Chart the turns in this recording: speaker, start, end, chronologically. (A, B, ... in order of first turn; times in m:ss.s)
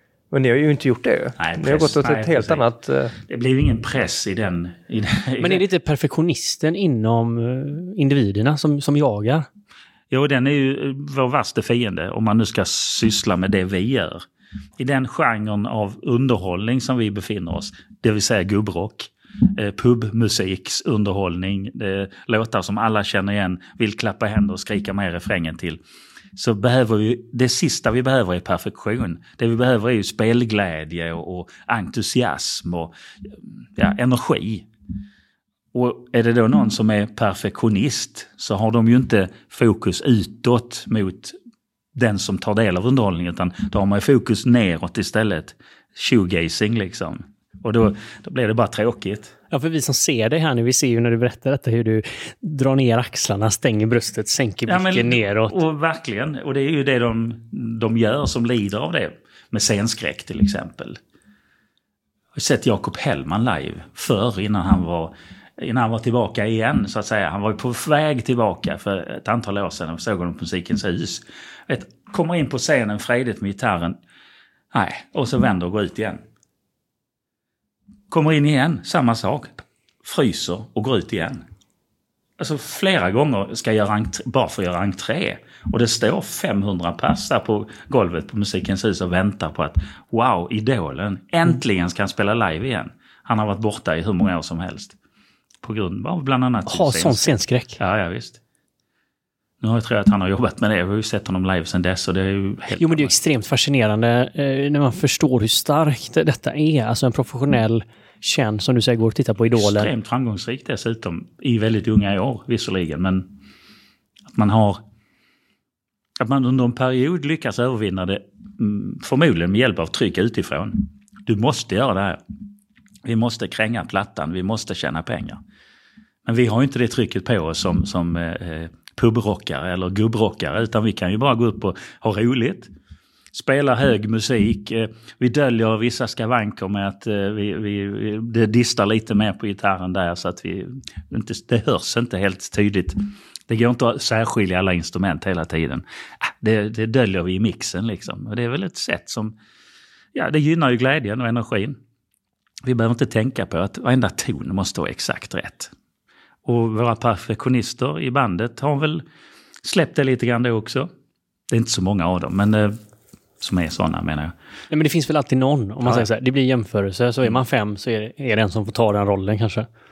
0:00.3-0:03.1 A
0:01.4-0:02.7 B
0:03.2-0:05.6 B
0:05.4-0:09.5 C
0:10.1-0:14.2 B
0:14.8-0:25.8 B
0:26.4-0:32.9 B
0:33.8-0:34.7 B
0:35.7-0:41.4 B
0:41.9-0:49.3 B
0:49.5-0:55.6 C
0:54.7-1:01.0 B
1:02.4-1:14.0 B
1:14.7-1:16.2 B
1:18.1-1:21.4 B
1:22.4-1:35.0 B
1:35.6-1:38.4 B
1:36.7-1:37.8 C
1:39.6-1:43.1 B
1:42.8-1:49.9 C
1:49.6-1:53.3 B
1:54.3-1:54.8 B
1:56.2-2:02.2 B
2:03.0-2:05.4 B
2:06.2-2:12.7 B
2:13.3-2:29.4 B
2:30.1-2:31.8 B
2:32.6-2:35.7 B
2:36.4-2:39.0 B
2:39.6-2:40.9 B
2:41.5-2:42.8 B
2:43.4-2:44.3 B
2:44.7-2:49.7 C